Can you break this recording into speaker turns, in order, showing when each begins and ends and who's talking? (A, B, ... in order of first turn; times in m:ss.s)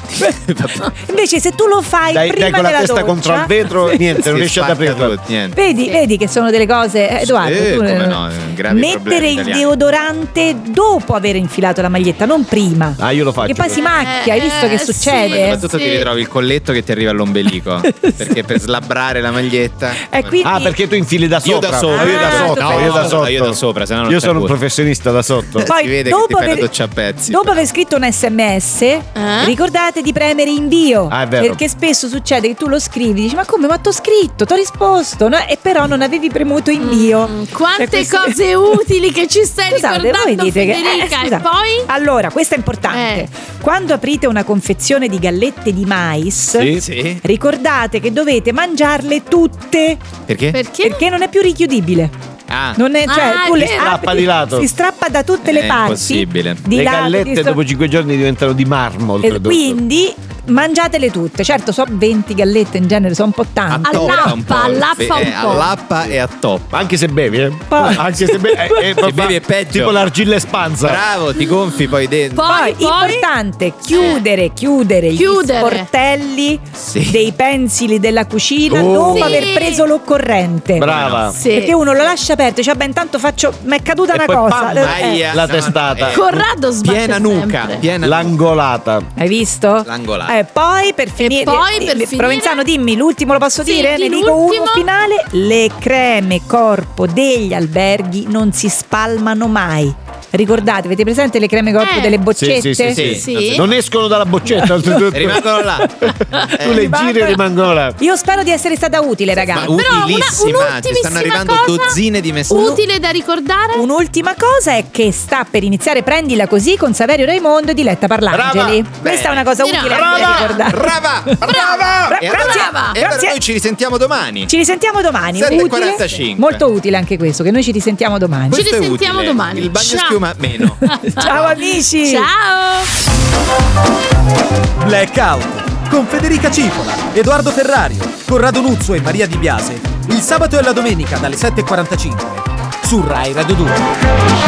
0:00.3-0:01.2 A
0:00.9-0:04.0 B
0:02.1-0:05.2 C
0:04.1-0:05.6 A
0:05.5-0:15.6 B
0:07.2-0:09.7 A
0:13.0-0:13.8 C
0:13.8-0:16.1 D
0:15.3-0:20.4 A
0:17.9-0:18.3 B
0:20.0-0:20.8 B
0:20.4-0:25.7 C
0:21.4-0:24.5 A
0:21.9-0:23.2 B
0:25.6-0:27.5 A
0:25.6-0:26.7 B
0:27.3-0:38.4 B
0:29.2-0:29.5 D
0:31.1-0:31.6 C
0:36.8-0:41.9 D
0:39.7-0:50.0 B
0:42.9-0:43.3 D
0:46.5-0:46.8 C
0:46.7-0:47.2 A
0:50.3-0:50.6 A
0:50.5-0:51.0 D
0:50.8-0:52.1 B
0:52.5-0:52.8 A
0:52.7-0:57.6 B
0:53.1-0:53.9 D
0:53.5-0:54.7 C
0:55.4-0:56.6 A
0:56.7-0:59.8 C
0:59.2-1:04.4 B
1:03.7-1:06.8 A
1:03.8-1:05.7 D
1:06.7-1:11.0 C
1:07.7-1:09.0 B
1:09.0-1:10.0 A
1:10.8-1:12.4 A
1:12.3-1:13.3 D
1:12.4-1:25.2 B
1:13.9-1:14.2 D
1:15.1-1:15.9 D
1:16.8-1:17.2 A
1:18.7-1:19.5 C
1:19.1-1:19.8 D
1:20.8-1:21.3 C
1:20.8-1:21.3 A
1:21.4-1:21.8 D
1:24.1-1:26.4 C
1:24.8-1:26.2 A
1:26.1-1:27.8 D
1:26.8-1:28.4 A
1:28.0-1:29.1 C
1:29.2-1:43.0 B
1:29.8-1:30.3 A
1:31.2-1:32.6 D
1:33.6-1:34.9 D
1:41.8-1:42.2 D
1:42.4-1:48.0 C
1:42.9-1:43.7 A
1:43.0-1:43.7 D
1:44.5-1:47.4 B
1:45.1-1:46.9 A
1:48.0-1:49.8 B
1:49.4-1:52.8 A
1:49.6-1:52.0 D
1:52.5-1:53.8 D
1:52.5-1:52.8 B
1:53.7-2:01.5 B
1:58.3-1:58.8 C
1:59.0-2:04.5 A
1:59.6-2:03.0 D
2:02.1-2:03.4 B
2:04.5-2:08.7 B
2:05.3-2:06.6 A
2:08.5-2:10.8 A
2:08.5-2:10.2 D
2:10.8-2:12.3 B
2:10.8-2:12.9 D
2:14.8-2:23.8 E